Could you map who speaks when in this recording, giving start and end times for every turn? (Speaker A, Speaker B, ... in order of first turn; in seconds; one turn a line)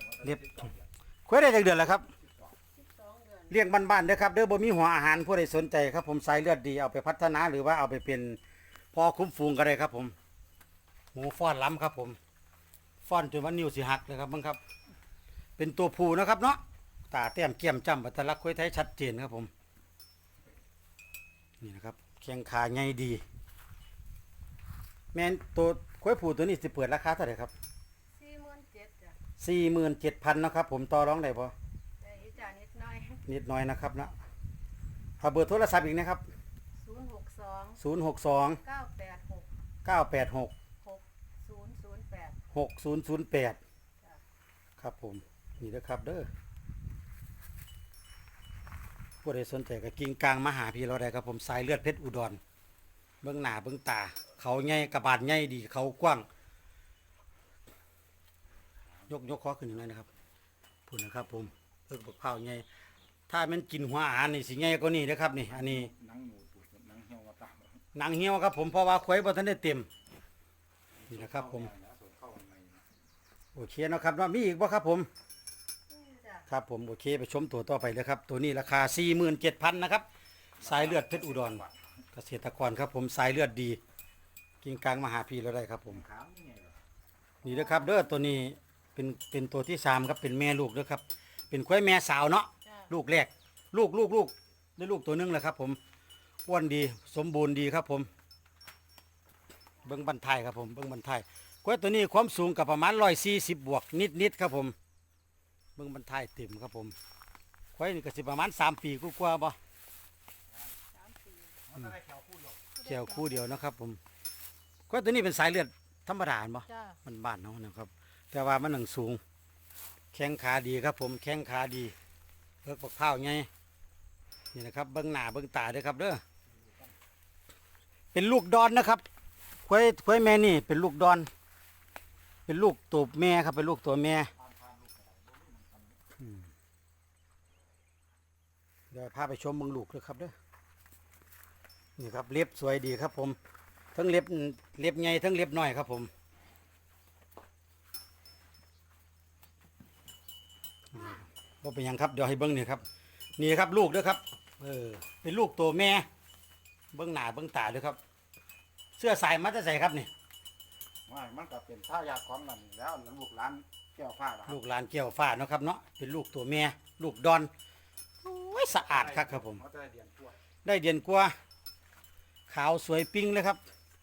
Speaker A: 0.2-0.6
Speaker A: 1.3-2.1
Speaker B: 2.7-3.6
Speaker A: 3.5-8.4
Speaker A: 8.9-10.2
Speaker A: 11.1-12.2
Speaker A: 13.1-14.6
Speaker A: 15.6-19.5
Speaker A: 21.6-23.2
Speaker A: 25.1-27.5
Speaker B: 28.1-29.2
Speaker A: 29.4-31.5
Speaker B: 32.0-33.2
Speaker A: 33.3-34.1
Speaker A: 35.2-36.3
Speaker B: 36.8-37.8
Speaker A: 37.8-38.6
Speaker B: 38.6-39.5
Speaker A: 39.9-40.5
Speaker B: 40.8-42.4
Speaker A: 42.5-43.6
Speaker A: 44.8-46.3
Speaker A: 49.2-52.4
Speaker A: 53.2-56.3
Speaker A: 59.1-60.1
Speaker A: 60.9-62.7
Speaker A: 63.3-66.0
Speaker C: 66.0-67.7
Speaker A: 68.0-69.9
Speaker A: 71.1-71.7
Speaker C: 71.1-72.8
Speaker A: 73.5-75.1
Speaker B: 75.9-76.5
Speaker A: 76.5-80.0
Speaker A: 80.6-83.8
Speaker C: 80.8-81.5
Speaker A: 84.6-86.1
Speaker C: 86.1-86.7
Speaker A: 87.4-95.8
Speaker B: 87.5-87.9
Speaker B: 92.6-92.9
Speaker A: 96.5-98.1
Speaker A: 99.8-104.8
Speaker A: 105.8-107.0
Speaker A: 107.8-109.6
Speaker B: 110.9-111.6
Speaker B: 112.8-113.5
Speaker A: 112.8-114.0
Speaker A: 114.9-119.2
Speaker B: 116.7-117.0
Speaker A: 120.1-122.0
Speaker A: 122.6-123.5
Speaker A: 124.5-126.2
Speaker A: 128.1-129.0
Speaker A: 129.7-131.3
Speaker A: 132.5-134.3
Speaker C: 134.5-135.7
Speaker A: 136.2-136.5
Speaker A: 138.9-140.3
Speaker A: 142.0-143.4
Speaker A: 143.9-146.1
Speaker A: 150.9-152.8
Speaker A: 153.4-156.1
Speaker A: 156.9-158.0
Speaker A: 159.0-160.1
Speaker C: 161.1-164.5
Speaker A: 164.5-167.5
Speaker A: 168.2-169.6
Speaker C: 169.6-170.3
Speaker A: 170.6-171.4
Speaker A: 172.5-173.6